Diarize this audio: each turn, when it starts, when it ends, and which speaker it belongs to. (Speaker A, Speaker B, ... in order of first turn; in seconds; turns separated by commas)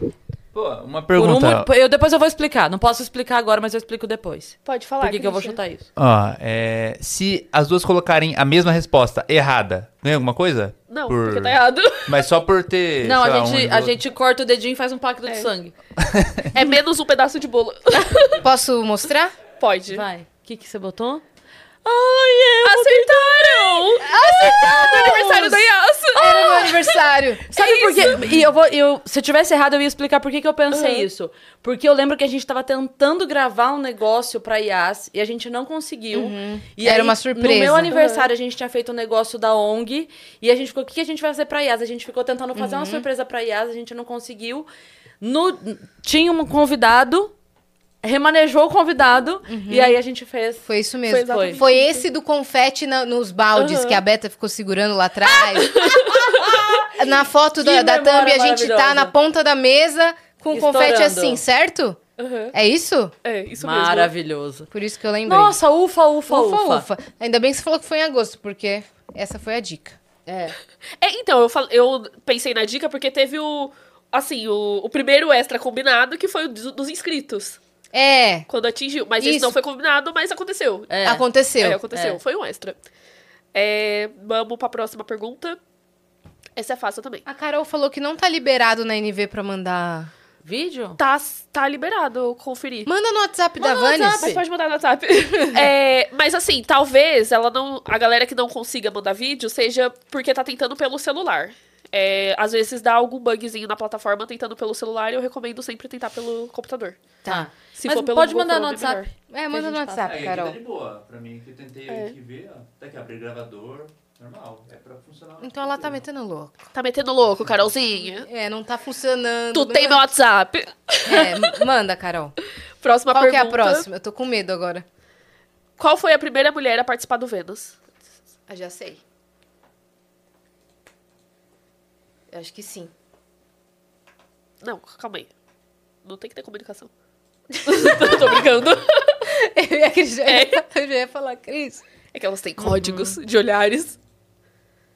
Speaker A: 0.5-1.7, Speaker B: 1.1-5.9, Speaker C: 4.6-5.6, Speaker A: 6.0-14.0, Speaker C: 10.9-12.2, Speaker B: 13.0-15.7, Speaker C: 15.2-15.5, Speaker A: 16.0-16.5, Speaker C: 16.5-18.4, Speaker D: 18.4-19.3, Speaker C: 19.6-20.0, Speaker B: 19.9-21.2, Speaker B: 21.8-25.6, Speaker C: 22.6-26.9, Speaker D: 24.1-27.4, Speaker B: 27.5-44.7, Speaker C: 27.5-28.2, Speaker C: 30.7-31.1, Speaker D: 36.1-37.9, Speaker C: 37.9-38.3, Speaker D: 42.5-43.0, Speaker B: 45.2-47.3, Speaker B: 48.0-50.7, Speaker D: 49.5-50.0, Speaker D: 50.6-55.9, Speaker C: 51.1-52.0, Speaker B: 51.2-51.6, Speaker C: 53.6-54.0, Speaker C: 55.5-56.3, Speaker B: 55.8-59.1, Speaker D: 56.9-62.0, Speaker B: 60.5-61.4, Speaker C: 62.2-62.5, Speaker D: 62.5-63.1, Speaker C: 63.2-64.1, Speaker B: 63.6-64.7, Speaker D: 64.7-65.6, Speaker B: 65.2-66.8, Speaker D: 66.3-70.0, Speaker B: 70.3-70.5, Speaker C: 71.0-77.6, Speaker D: 77.9-78.5, Speaker C: 78.5-80.9, Speaker D: 79.2-79.5, Speaker B: 80.9-81.2, Speaker D: 81.0-81.8, Speaker C: 81.6-82.8, Speaker B: 81.9-82.2, Speaker C: 83.5-85.6, Speaker C: 86.5-87.2, Speaker D: 87.2-90.1, Speaker B: 90.4-91.0, Speaker C: 91.0-92.9, Speaker D: 92.8-94.3, Speaker C: 93.6-107.0, Speaker B: 93.8-94.4, Speaker D: 95.4-95.7, Speaker B: 107.2-110.2, Speaker C: 107.7-109.1, Speaker D: 109.3-110.6, Speaker A: 110.0-115.9, Speaker C: 111.9-112.1, Speaker D: 115.4-116.6, Speaker C: 116.7-118.3, Speaker D: 118.0-120.0, Speaker C: 119.5-121.4, Speaker D: 121.0-122.3, Speaker C: 122.8-123.8, Speaker D: 123.1-124.8, Speaker C: 125.8-127.8, Speaker D: 128.5-129.0, Speaker D: 132.3-132.9, Speaker C: 134.6-135.3, Speaker C: 136.0-136.9, Speaker C: 137.5-139.3, Speaker D: 137.7-138.3, Speaker D: 139.2-141.8, Speaker C: 140.2-140.6, Speaker C: 142.1-143.9, Speaker B: 142.6-143.2